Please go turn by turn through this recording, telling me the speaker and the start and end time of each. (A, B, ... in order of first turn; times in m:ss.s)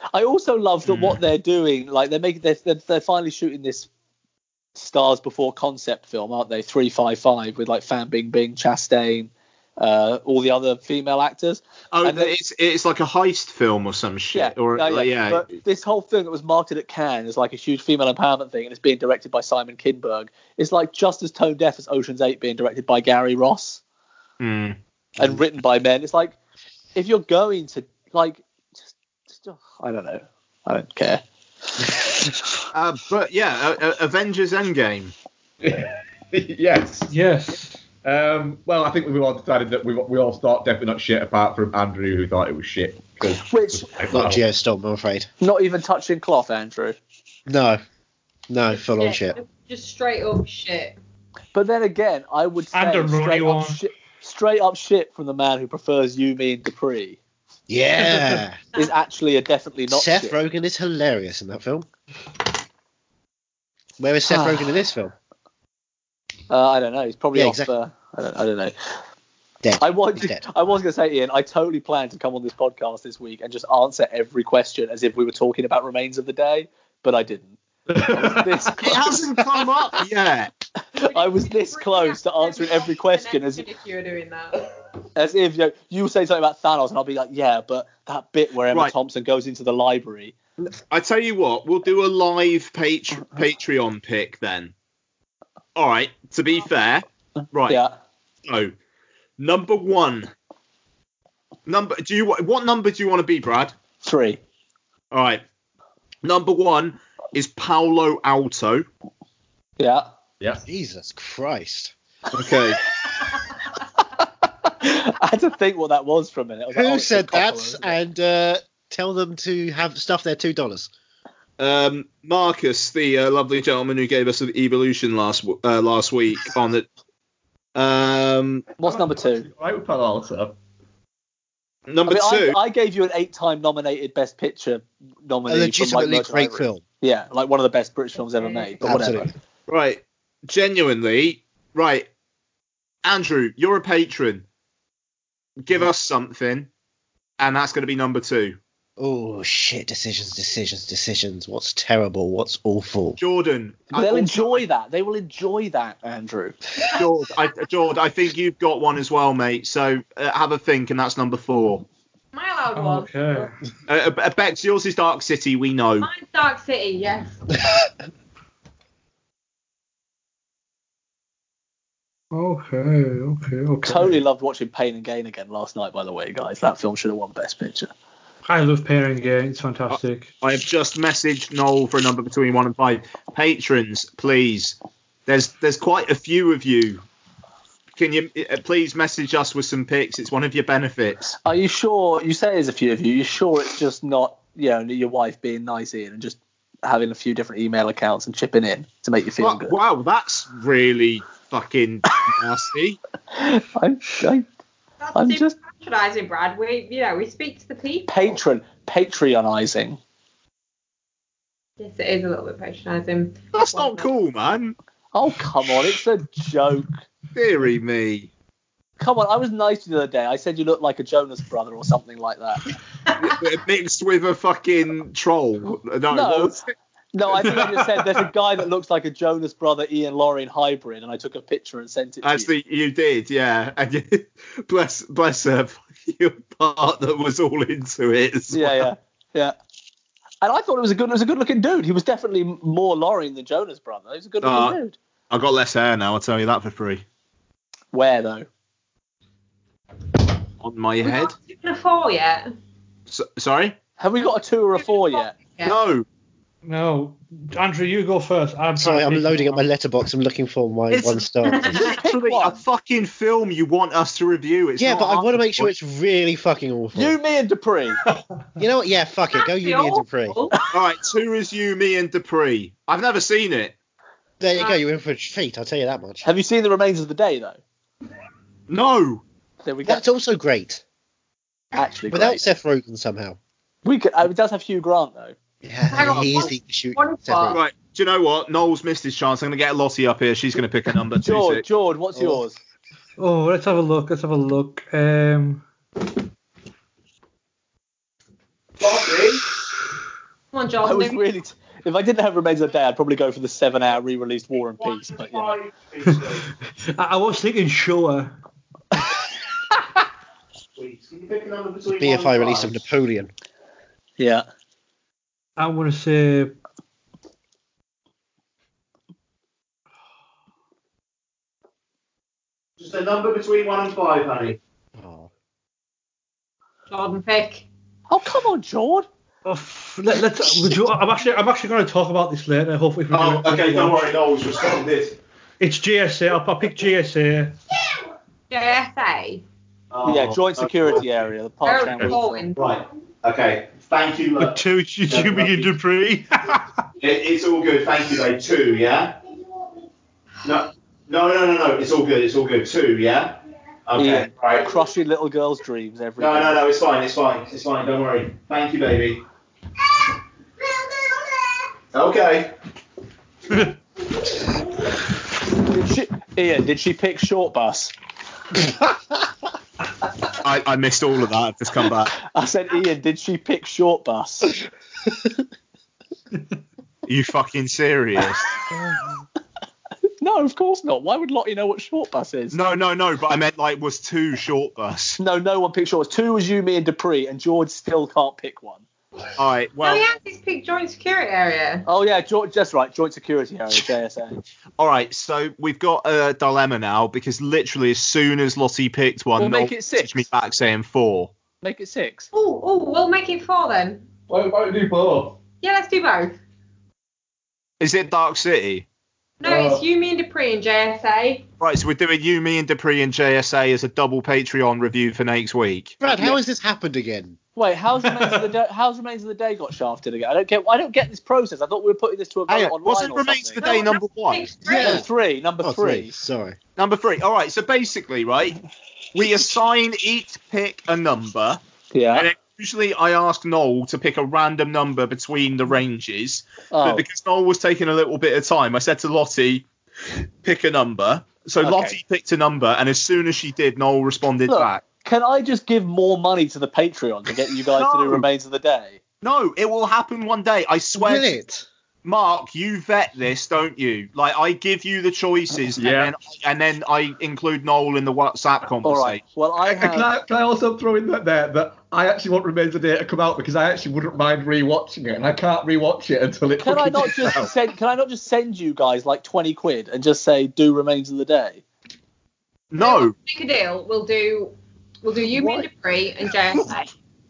0:00.1-0:03.9 A
0:00.9-0:01.2 B
0:04.8-0:12.3 A
0:11.9-0:15.6 B
0:14.3-0:23.8 A
0:24.4-0:24.8 B
0:25.2-0:26.4 A
0:27.0-0:28.4 A
0:29.3-0:31.2 A
0:31.8-0:32.0 A
0:32.7-0:35.1 B
0:35.6-0:37.1 C
0:37.1-0:37.7 D
0:38.0-0:44.4 C
0:43.4-0:43.9 A
0:44.1-0:45.3 E
0:45.4-0:47.0 A
0:47.5-0:47.8 E
0:48.5-0:49.4 E
0:48.8-0:51.0 F
0:51.5-0:57.2 A
0:52.7-0:53.8 D
0:57.7-0:58.6 E
0:58.8-1:00.4 A
0:59.9-1:01.9 E
1:04.0-1:05.1 E
1:06.5-1:08.7 A
1:07.3-1:07.7 E
1:09.6-1:10.4 E
1:09.8-1:19.3 A
1:17.9-1:18.7 C
1:18.8-1:20.5 B
1:21.0-1:23.7 A
1:21.0-1:24.6 F
1:25.2-1:30.4 A
1:30.9-1:34.7 B
1:35.8-1:37.8 B
1:37.7-1:37.9 A
1:38.5-1:38.7 B
1:39.4-1:40.3 B
1:41.7-1:43.7 B
1:44.0-1:44.4 A
1:45.1-1:45.4 B
1:46.2-1:48.9 B
1:49.8-1:50.1 A
1:50.6-1:51.9 E
1:52.3-1:52.8 B
1:54.8-1:58.0 A
1:56.7-2:00.9 E
2:01.6-2:06.9 B
2:07.8-2:08.7 B
2:08.8-2:09.5 A
2:08.8-2:10.6 C
2:11.9-2:12.6 B
2:12.1-2:19.3 A
2:15.5-2:16.8 E
2:18.8-2:19.3 E
2:19.7-2:22.1 B
2:23.0-2:24.4 B
2:25.6-2:26.7 B
2:27.4-2:28.6 B
2:29.0-2:33.2 E
2:33.2-2:34.6 B
2:33.9-2:36.6 A
2:37.0-2:41.8 B
2:42.3-2:43.5 F
2:42.8-2:43.5 D
2:43.9-2:46.1 B
2:46.0-2:47.4 F
2:52.3-2:54.2 D
2:53.8-2:57.9 A
2:58.5-3:00.3 D
2:59.9-3:07.0 B
3:08.0-3:11.2 B
3:11.4-3:19.8 A
3:19.4-3:23.0 B
3:23.3-3:24.5 A
3:25.0-3:28.3 F
3:25.2-3:25.6 A
3:28.1-3:30.0 A
3:31.8-3:34.1 F
3:33.5-3:34.8 B
3:35.1-3:36.9 A
3:37.3-3:38.3 B
3:39.0-3:42.6 A
3:43.2-3:46.7 B
3:46.1-3:46.6 A
3:47.1-3:52.5 A
3:52.2-3:58.9 B
3:58.5-3:59.6 A
4:00.4-4:05.0 A
4:04.4-4:04.8 B
4:05.3-4:07.0 B
4:07.9-4:08.5 A
4:10.6-4:11.4 B
4:11.0-4:12.5 F
4:13.1-4:13.8 B
4:14.0-4:15.3 A
4:15.2-4:15.8 F
4:15.6-4:16.0 B
4:16.6-4:19.7 D
4:18.8-4:21.8 E
4:20.9-4:25.7 B
4:21.5-4:21.9 F
4:21.8-4:22.6 A
4:24.8-4:27.2 E
4:27.0-4:28.0 A
4:28.6-4:30.4 E
4:29.4-4:30.6 F
4:30.7-4:33.8 B
4:34.4-4:36.3 E
4:36.2-4:37.6 A
4:38.7-4:39.2 B
4:39.6-4:40.0 A
4:39.8-4:40.8 E
4:41.7-4:42.4 A
4:42.1-4:43.4 E
4:43.8-4:45.4 A
4:45.6-4:47.6 E
4:45.9-4:47.6 F
4:47.5-4:51.7 B
4:51.2-4:52.6 A
4:52.2-4:52.4 E
4:53.2-4:55.6 D
4:58.8-4:59.4 B
5:00.5-5:01.2 F
5:00.8-5:05.6 A
5:04.8-5:06.5 B
5:07.0-5:08.4 D
5:10.8-5:12.8 B
5:12.0-5:13.3 E
5:14.2-5:14.4 A
5:15.6-5:16.6 D
5:22.8-5:24.6 B
5:25.0-5:25.3 E
5:26.9-5:27.6 F
5:28.1-5:29.1 A
5:29.4-5:34.0 D
5:33.1-5:35.2 B
5:35.6-5:37.6 D
5:38.5-5:39.4 F
5:39.9-5:41.0 B
5:40.0-5:42.2 A
5:41.6-5:42.7 F
5:42.6-5:45.7 B
5:44.4-5:46.6 D
5:47.0-5:49.2 B
5:50.4-5:53.4 B
5:53.9-5:54.7 B
5:54.0-5:56.6 A
5:56.2-5:59.2 B
6:01.9-6:02.5 B
6:05.6-6:07.9 A
6:10.4-6:12.1 B
6:12.2-6:14.5 A
6:17.1-6:18.5 B
6:20.2-6:22.6 A
6:22.5-6:25.2 B
6:25.2-6:28.8 A
6:29.4-6:30.1 B
6:29.8-6:31.8 F
6:31.9-6:34.4 A
6:34.8-6:41.3 B
6:39.4-6:40.3 A
6:41.6-6:42.3 A
6:42.3-6:44.0 F
6:44.3-6:45.4 C
6:45.6-6:46.4 F
6:47.8-6:48.9 B
6:49.4-6:51.4 F
6:49.4-6:49.8 C
6:51.6-6:56.3 B
6:56.0-6:57.4 E
6:57.6-7:03.8 A
7:02.5-7:04.9 B
7:03.6-7:05.1 F
7:04.6-7:05.1 E
7:04.7-7:06.1 A
7:05.6-7:06.6 E
7:06.8-7:08.6 B
7:09.2-7:11.6 B
7:11.9-7:12.3 A
7:12.1-7:19.7 B
7:16.7-7:17.0 A
7:20.4-7:24.9 B
7:21.6-7:22.0 A
7:24.5-7:29.0 A
7:27.7-7:28.2 B
7:29.2-7:31.4 B
7:30.9-7:31.6 E
7:32.0-7:39.2 B
7:35.8-7:36.1 C
7:38.8-7:40.1 A
7:39.6-7:47.5 C
7:46.6-7:51.6 A
7:52.7-7:53.2 B
7:52.8-7:56.9 F
7:55.3-7:55.7 A